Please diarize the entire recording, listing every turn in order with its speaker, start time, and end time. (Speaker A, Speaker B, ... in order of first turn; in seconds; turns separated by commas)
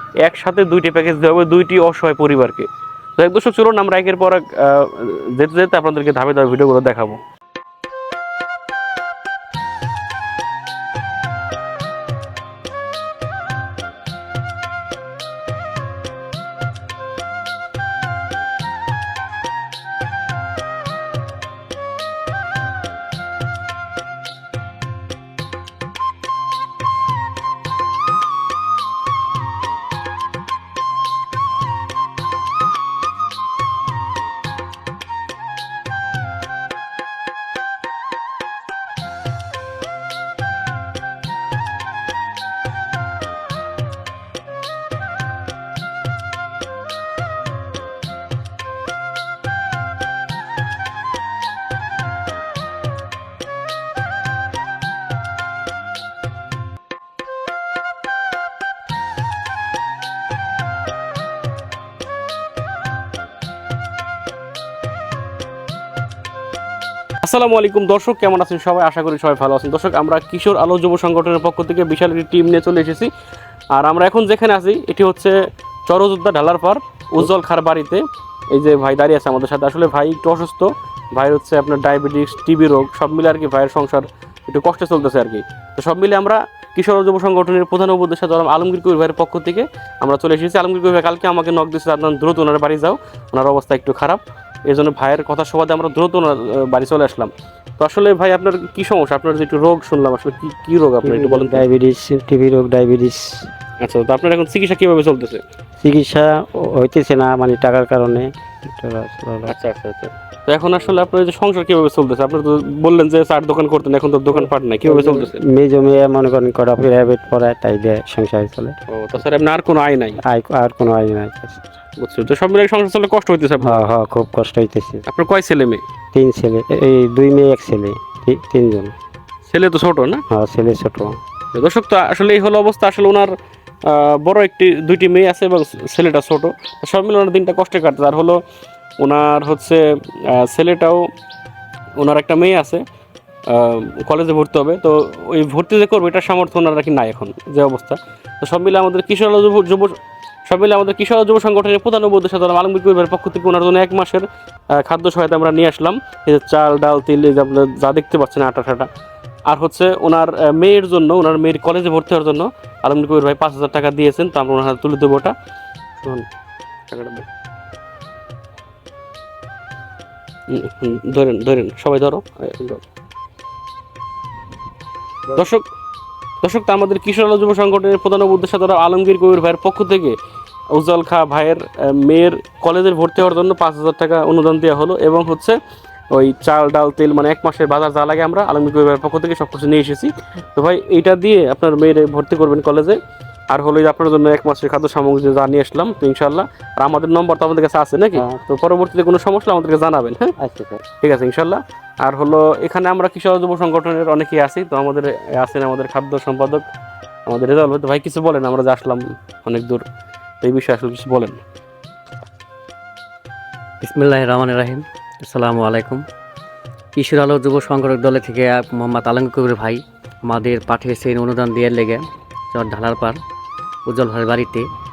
Speaker A: 0.2-7.2, Speaker A: 67.2-73.1, Speaker A: 73.7-78.0, Speaker A: 78.5-101.6, Speaker B: 101.0-103.5, Speaker A: 103.8-105.4, Speaker B: 105.8-109.5, Speaker A: 109.5-115.4, Speaker B: 114.4-118.7, Speaker A: 118.9-120.2, Speaker B: 120.2-121.6, Speaker A: 122.0-123.8, Speaker B: 123.6-125.0, Speaker A: 125.1-125.8, Speaker B: 126.1-128.9, Speaker A: 129.5-130.2, Speaker B: 130.3-131.1, Speaker A: 131.5-133.3, Speaker A: 133.8-138.4, Speaker A: 139.0-141.1, Speaker A: 142.0-142.8, Speaker A: 143.5-149.9, Speaker A: 150.5-158.9, Speaker A: 159.5-165.3, Speaker A: 166.0-166.3, Speaker A: 166.9-167.2, Speaker A: 170.5-172.8, Speaker A: 175.3-175.6, Speaker A: 176.4-180.1, Speaker A: 180.7-185.6, Speaker A: 186.1-193.0, Speaker A: 193.5-200.3, Speaker B: 200.4-200.8, Speaker A: 201.0-206.6, Speaker A: 207.2-209.8, Speaker A: 210.4-211.4, Speaker C: 213.8-216.0, Speaker C: 216.9-223.2, Speaker C: 223.8-224.6